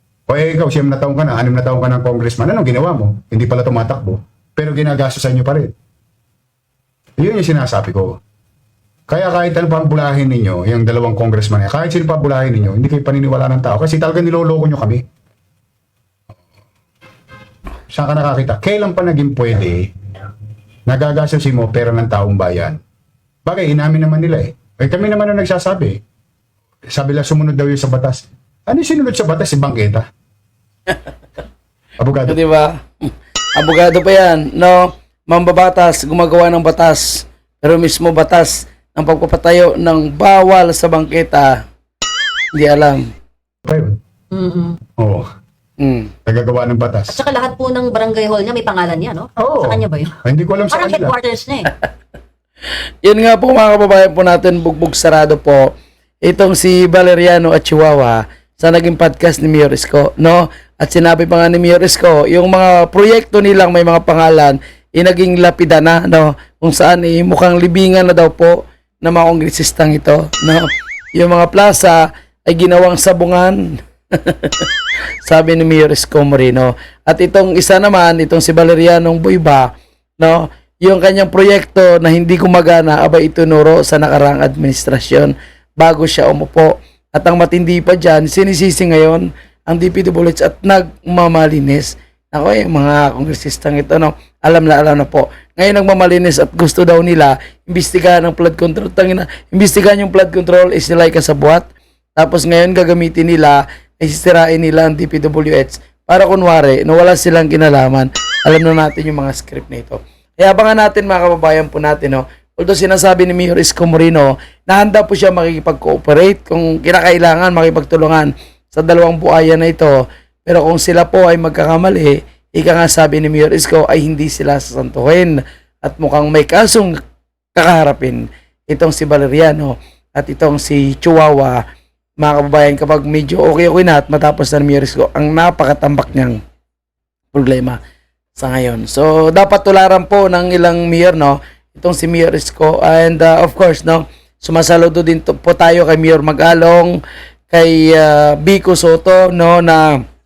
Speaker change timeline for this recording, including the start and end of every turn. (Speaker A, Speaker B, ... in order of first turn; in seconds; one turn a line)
Speaker A: 0.3-5.7
Speaker A: 7.2-8.2
Speaker A: 9.1-15.0
Speaker A: 17.9-19.9
Speaker A: 20.9-22.8
Speaker A: 23.5-25.9
Speaker A: 26.9-30.0
Speaker A: 32.0-32.4
Speaker B: 32.3-41.6
Speaker B: 42.5-43.1
Speaker A: 43.6-44.0
Speaker C: 44.3-44.8
Speaker A: 45.0-45.3
Speaker B: 45.8-46.1
Speaker A: 46.3-47.2
Speaker C: 47.1-50.2
Speaker A: 49.4-51.1
Speaker C: 50.7-51.7
Speaker B: 53.0-55.7
Speaker B: 56.2-74.7
Speaker B: 75.2-79.7
Speaker B: 80.2-127.0
Speaker B: 127.6-131.6
Speaker B: 132.2-136.4
Speaker B: 137.3-137.8
Speaker B: 138.4-147.0
Speaker B: 147.5-150.0